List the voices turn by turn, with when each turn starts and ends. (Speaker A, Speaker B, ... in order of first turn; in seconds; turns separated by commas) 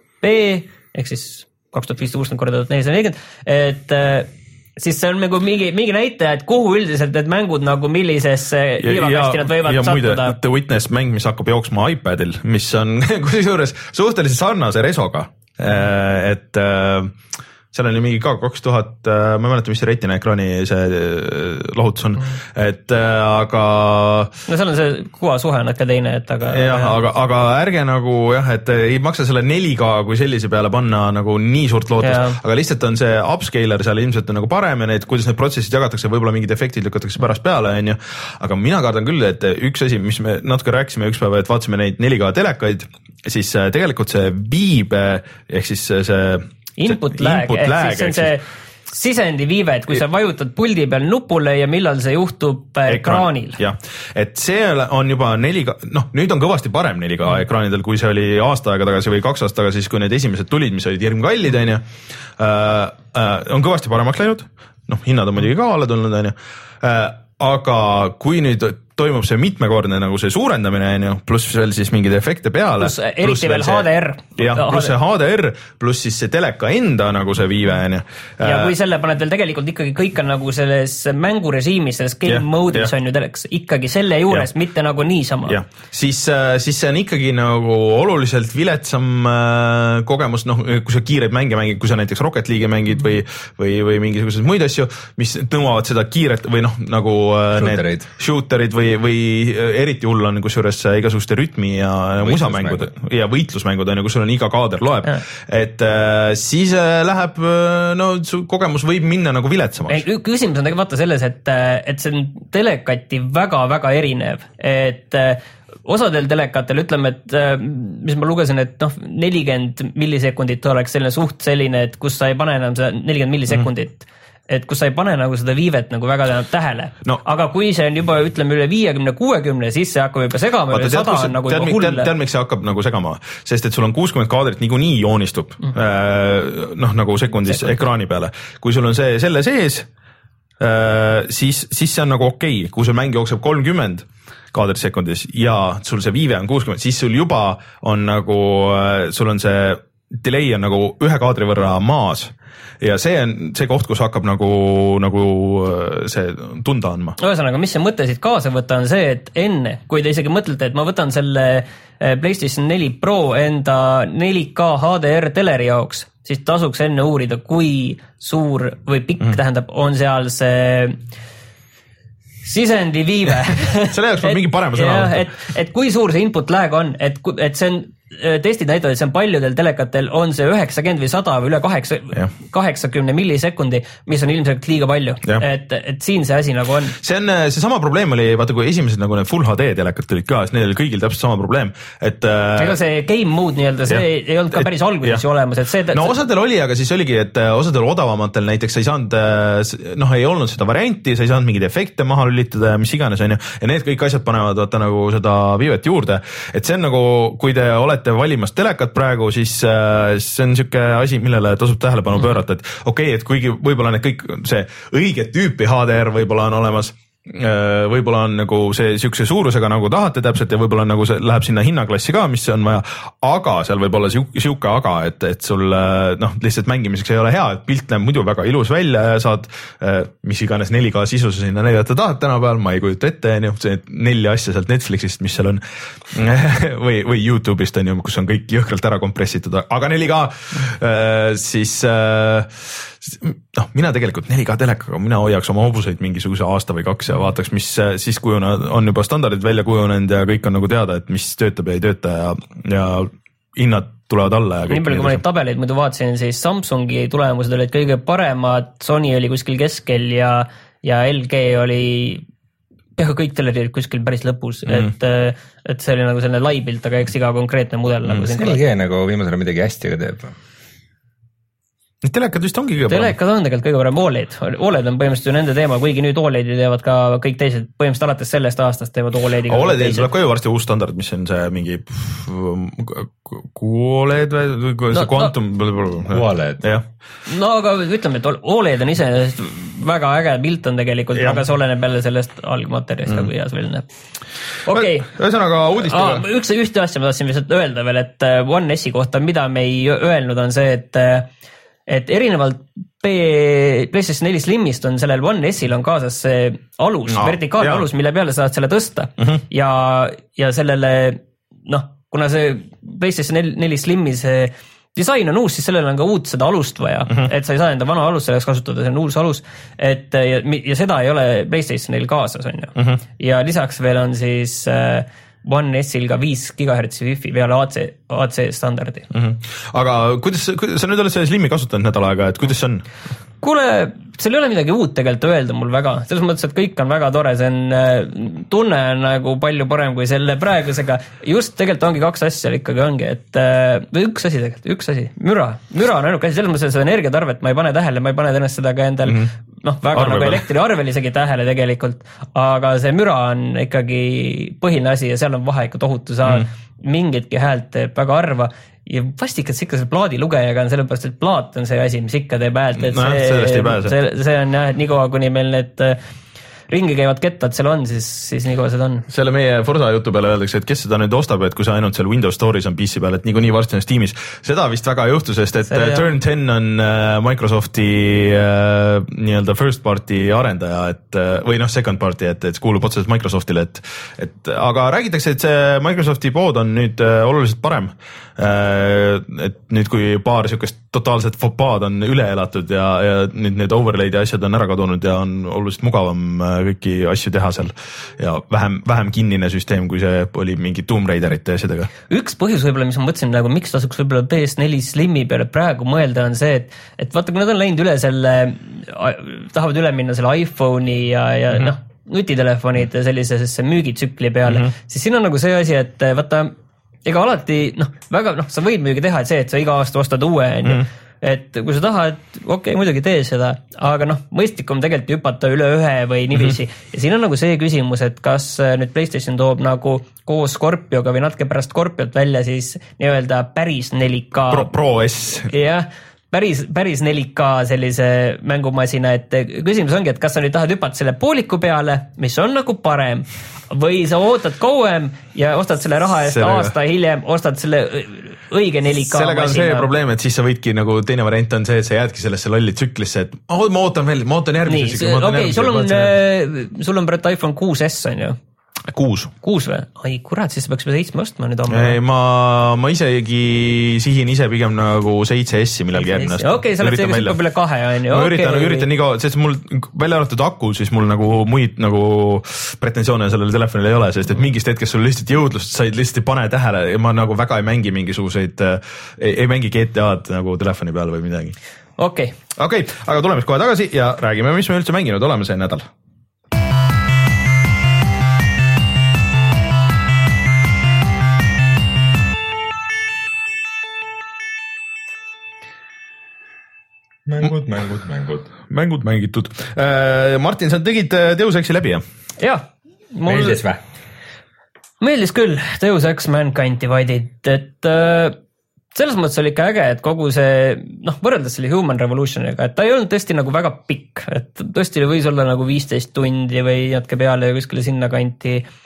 Speaker A: 0.2-10.3, Speaker B: 8.8-17.1, Speaker B: 17.7-24.3, Speaker A: 24.5-27.0, Speaker B: 26.5-48.4, Speaker A: 32.0-32.4, Speaker A: 46.8-53.6, Speaker B: 52.9-61.8, Speaker B: 62.4-73.9, Speaker A: 72.8-74.9, Speaker B: 74.4-78.7, Speaker A: 78.4-85.6, Speaker B: 82.2-82.9, Speaker B: 85.4-110.0, Speaker C: 97.5-98.1, Speaker C: 102.2-102.9, Speaker A: 109.9-132.1, Speaker B: 130.7-139.9, Speaker B: 140.6-157.2, Speaker A: 157.2-171.0, Speaker A: 172.4-186.9, Speaker B: 173.7-175.2, Speaker B: 187.0-192.8, Speaker A: 192.6-196.2, Speaker B: 193.9-195.2, Speaker B: 195.9-255.2, Speaker A: 254.7-262.2, Speaker A: 263.0-268.6, Speaker C: 268.3-270.3, Speaker B: 272.0-273.1, Speaker A: 272.9-280.1, Speaker B: 279.5-286.8, Speaker A: 284.9-285.3, Speaker C: 286.1-286.6, Speaker A: 287.3-293.8, Speaker B: 291.1-291.4, Speaker A: 294.6-295.1, Speaker B: 294.7-296.2, Speaker A: 295.8-301.3, Speaker A: 301.9-329.1, Speaker B: 307.1-307.8, Speaker B: 329.1-332.9, Speaker A: 333.4-366.0, Speaker B: 349.9-350.4, Speaker B: 362.8-363.9, Speaker A: 366.7-369.1, Speaker B: 369.1-401.9, Speaker A: 375.7-376.1, Speaker A: 402.1-416.5, Speaker A: 417.1-434.7, Speaker B: 434.5-435.5, Speaker A: 435.5-449.9, Speaker B: 446.3-446.7, Speaker B: 449.0-456.1, Speaker A: 454.7-458.4, Speaker B: 458.9-459.3, Speaker A: 459.4-462.0, Speaker B: 461.7-467.4, Speaker A: 465.9-468.9, Speaker B: 468.1-481.6, Speaker A: 482.0-482.3, Speaker B: 482.6-485.9, Speaker C: 497.3-498.5, Speaker B: 498.7-502.0, Speaker A: 502.4-503.6, Speaker C: 503.3-503.8, Speaker A: 505.0-508.4, Speaker A: 508.9-518.7